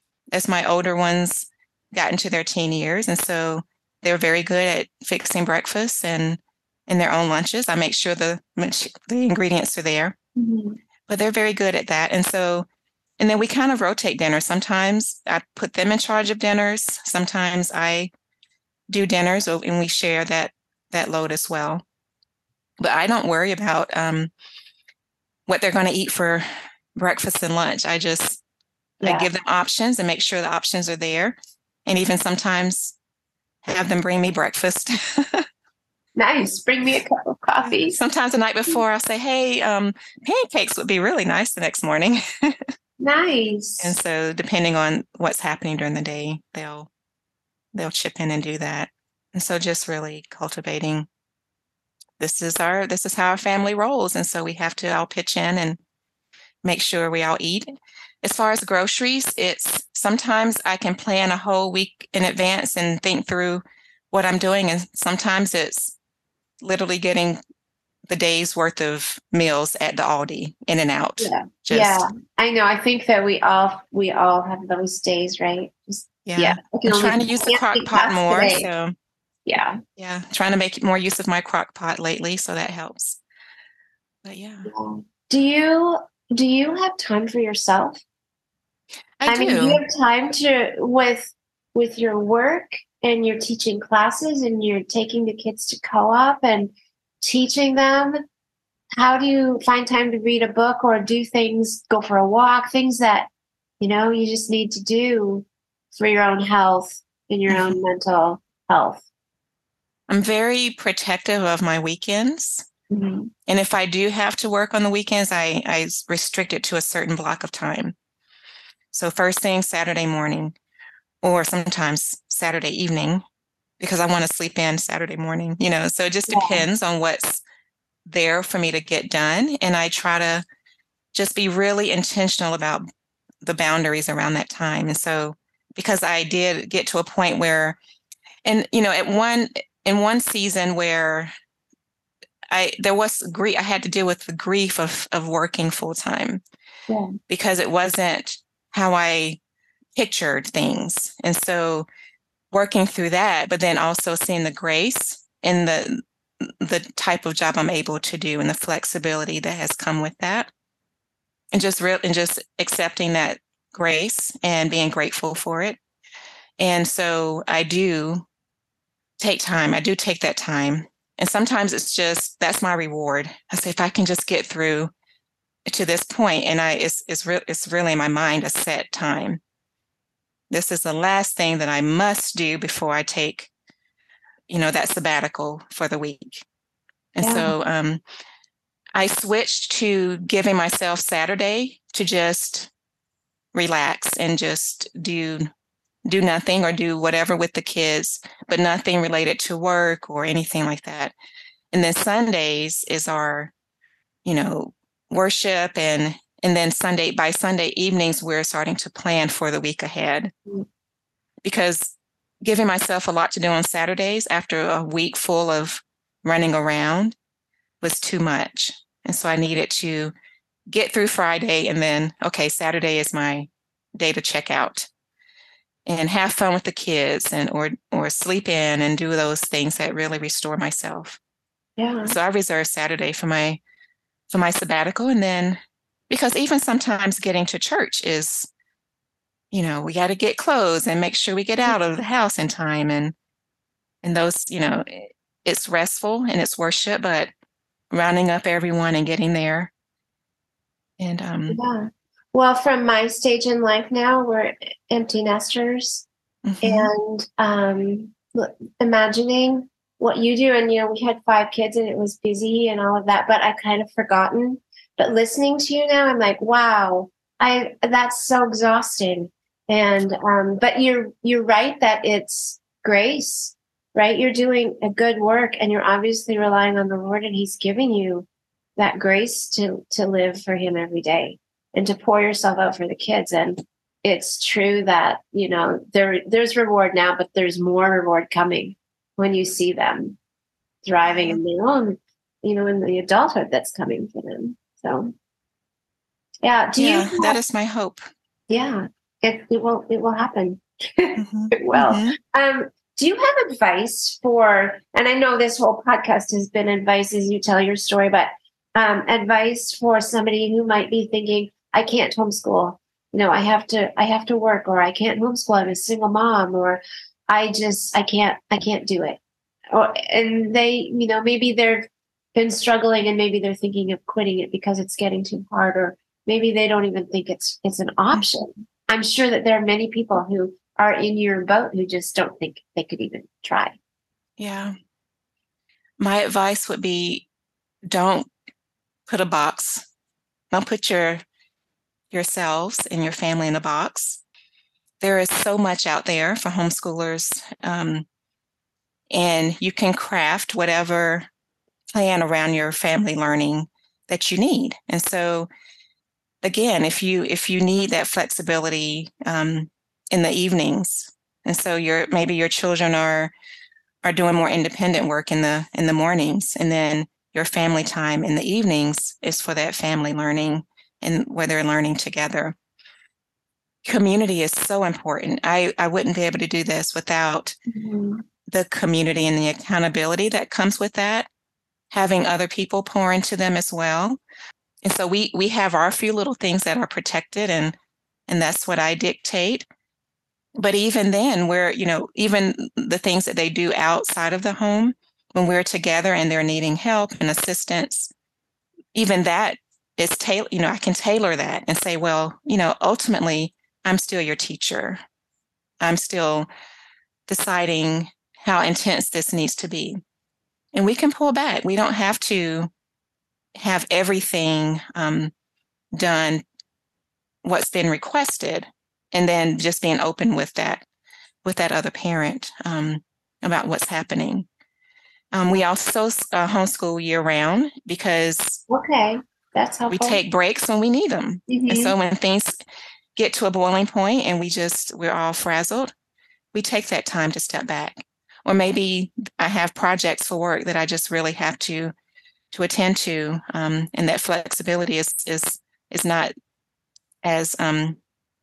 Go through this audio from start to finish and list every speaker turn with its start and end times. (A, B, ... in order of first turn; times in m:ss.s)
0:00.3-0:10.2 A
0:10.4-0:10.8 B
0:11.1-0:12.7 A
0:13.2-0:18.1 A
0:18.9-0:21.8 A
0:22.8-0:24.3 A
0:25.5-0:28.4 A
0:29.0-0:33.0 A
0:29.0-0:29.3 B
0:33.6-0:35.5 A
0:36.2-0:38.0 B
0:37.6-0:42.7 A
0:43.0-0:44.0 B
0:43.8-0:46.9 A
0:47.7-0:51.1 A
0:52.2-0:55.8 A
0:56.6-0:57.7 A
0:58.2-1:05.9 A
1:06.6-1:07.4 A
1:08.1-1:12.0 A
1:11.2-1:18.7 B
1:16.3-1:19.0 A
1:19.5-1:19.8 B
1:20.0-1:23.2 A
1:24.2-1:24.7 A
1:24.7-1:28.0 B
1:29.2-1:29.8 A
1:29.3-1:38.2 B
1:39.0-1:43.3 B
1:43.8-1:49.0 B
1:47.5-1:47.8 A
1:50.1-1:52.6 A
1:52.9-1:53.3 B
1:53.5-1:57.9 A
1:58.9-2:00.6 A
2:01.2-2:03.2 A
2:03.8-2:07.4 A
2:06.3-2:06.6 B
2:08.1-2:10.4 A
2:11.1-2:12.8 A
2:13.4-2:17.8 A
2:18.4-2:21.3 A
2:22.5-2:26.4 A
2:27.3-2:29.4 A
2:30.0-2:31.9 A
2:32.5-2:40.5 A
2:41.5-2:45.8 A
2:46.6-2:48.2 A
2:49.2-2:54.9 A
2:55.7-2:59.4 A
3:00.5-3:03.5 A
3:04.5-3:06.4 A
3:07.2-3:08.0 A
3:07.2-3:07.5 B
3:09.0-3:12.7 A
3:13.5-3:15.5 A
3:16.1-3:21.1 A
3:21.7-3:23.5 A
3:24.2-3:30.3 A
3:31.4-3:37.2 A
3:37.8-3:40.1 A
3:40.7-3:44.9 A
3:45.9-3:51.2 A
3:51.8-3:52.2 B
3:52.1-3:53.6 A
3:54.3-3:58.5 A
3:59.5-4:03.1 A
4:04.0-4:07.3 A
4:07.9-4:09.7 A
4:11.0-4:11.6 A
4:11.5-4:16.1 B
4:16.4-4:16.9 A
4:16.6-4:38.3 B
4:38.8-4:50.2 B
4:50.8-4:55.1 B
4:51.1-4:51.4 A
4:56.4-4:57.4 B
4:56.8-4:58.0 A
4:58.5-5:19.2 B
5:01.2-5:02.2 A
5:19.7-5:33.8 B
5:34.4-5:34.8 A
5:36.0-5:37.3 A
5:37.9-5:38.3 A
5:39.1-5:39.9 A
5:40.5-5:41.2 A
5:42.1-5:44.2 A
5:45.0-5:48.1 A
5:49.1-5:51.3 A
5:51.9-5:55.5 A
5:56.4-6:03.3 A
6:04.0-6:12.6 A
6:13.8-6:17.6 A
6:17.7-6:18.2 B
6:18.5-6:21.3 A
6:21.9-6:24.2 A
6:24.8-6:27.8 A
6:28.3-6:29.7 A
6:30.6-6:38.1 A
6:39.0-6:45.0 A
6:45.8-6:46.5 A
6:47.3-6:50.0 A
6:50.7-6:52.7 A
6:53.6-6:55.3 A
6:55.9-6:56.4 A
6:57.4-7:00.8 A
7:01.4-7:04.5 A
7:05.3-7:08.6 A
7:08.7-7:10.2 B
7:09.9-7:12.5 A
7:11.5-7:12.0 B
7:13.2-7:15.9 A
7:16.5-7:21.9 A
7:22.5-7:26.3 A
7:27.2-7:28.0 A